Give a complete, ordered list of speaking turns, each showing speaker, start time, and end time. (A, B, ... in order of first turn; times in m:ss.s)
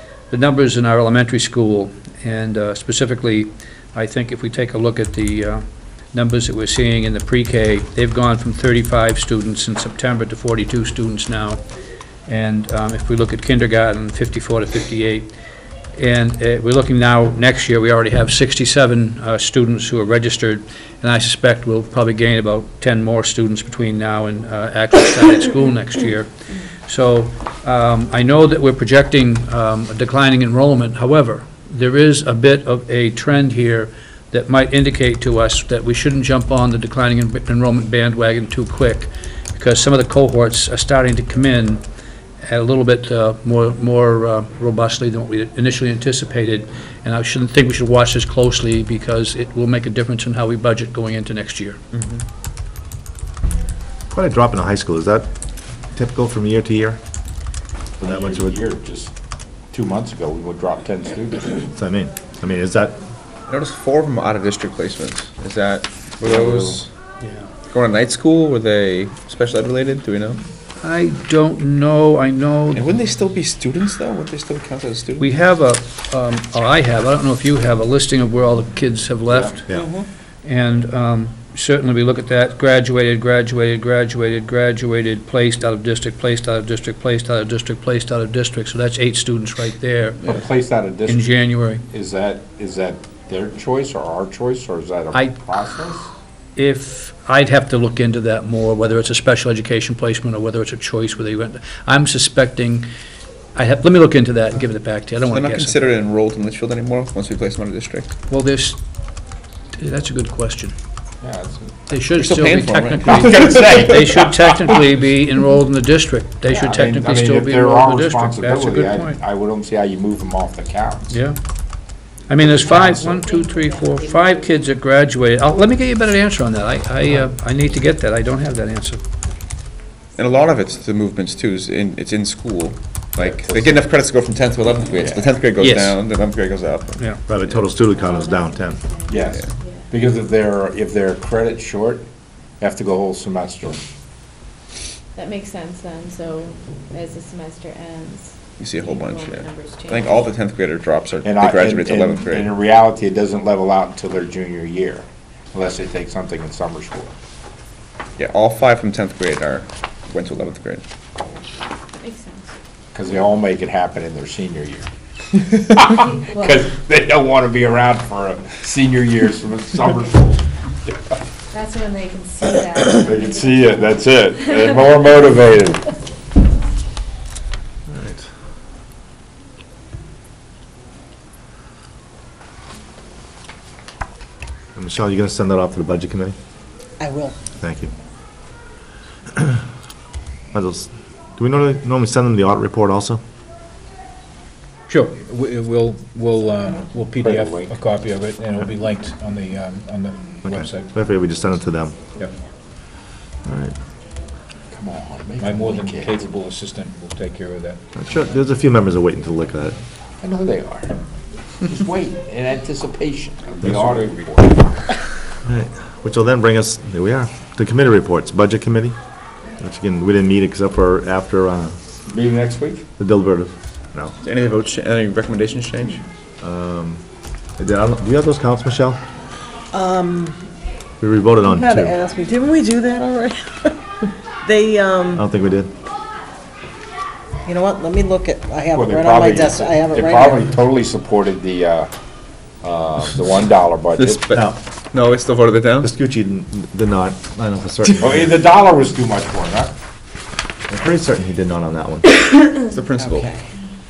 0:00.3-0:11.6 A
0:12.3-0:15.3 A
0:16.0-0:41.8 A
0:42.4-0:51.8 A
0:51.9-0:52.2 B
0:54.1-0:55.3 C
0:55.9-0:57.0 C
0:58.0-0:59.1 D
0:58.0-0:58.6 C
0:59.7-1:01.7 D
1:01.7-1:03.0 C
1:03.5-1:06.9 B
1:06.2-1:06.8 C
1:07.2-1:07.5 A
1:07.7-1:10.4 B
1:10.8-1:12.9 A
1:12.7-1:15.3 B
1:15.2-1:19.7 A
1:20.4-1:30.4 A
1:30.2-1:31.4 D
1:31.1-1:31.8 A
1:31.9-1:36.1 D
1:36.6-1:42.9 A
1:43.6-1:45.9 A
1:45.3-1:48.1 B
1:48.3-1:48.8 A
1:49.8-1:50.8 A
1:51.2-1:51.8 D
1:51.9-1:59.2 A
1:52.2-1:54.3 B
1:56.5-2:01.2 D
2:01.1-2:01.4 A
2:02.3-2:09.0 A
2:02.6-2:04.5 E
2:02.8-2:03.2 D
2:10.2-2:17.5 B
2:13.2-2:13.9 D
2:15.0-2:15.3 D
2:15.6-2:16.0 A
2:17.3-2:18.8 C
2:17.8-2:19.9 E
2:19.1-2:22.1 D
2:19.3-2:19.5 B
2:22.6-2:23.8 D
2:25.2-2:30.4 E
2:28.6-2:32.5 B
2:31.2-2:37.1 D
2:38.2-2:40.8 B
2:41.9-2:42.5 E
2:42.9-2:44.9 D
2:45.5-2:51.2 D
2:46.3-2:46.6 E
2:51.5-2:55.0 E
2:52.8-2:55.9 D
2:57.9-2:58.3 C
3:04.8-3:06.4 C
3:07.0-3:07.3 F
3:07.6-3:07.9 C
3:09.3-3:09.6 C
3:10.5-3:13.2 C
3:14.9-3:20.8 G
3:17.2-3:17.8 D
3:20.4-3:22.0 C
3:23.4-3:23.8 C
3:24.7-3:26.3 D
3:25.5-3:27.8 G
3:28.0-3:29.8 C
3:30.2-3:31.0 D
3:31.6-3:34.9 D
3:35.4-3:39.0 C
3:39.6-3:41.8 C
3:42.1-3:42.9 D
3:43.0-3:44.2 C
3:44.2-3:46.0 B
3:46.4-3:47.0 C
3:47.6-3:49.0 C
3:49.7-3:50.2 F
3:51.0-3:52.0 C
3:51.5-3:53.8 F
3:54.4-3:55.2 F
3:55.1-3:55.7 C
3:57.5-4:00.4 F
3:58.7-4:01.9 D
4:02.6-4:04.3 D
4:04.0-4:05.9 B
4:04.3-4:04.6 C
4:05.8-4:08.4 C
4:08.0-4:09.7 D
4:10.7-4:12.1 C
4:12.6-4:13.4 B
4:13.1-4:13.4 F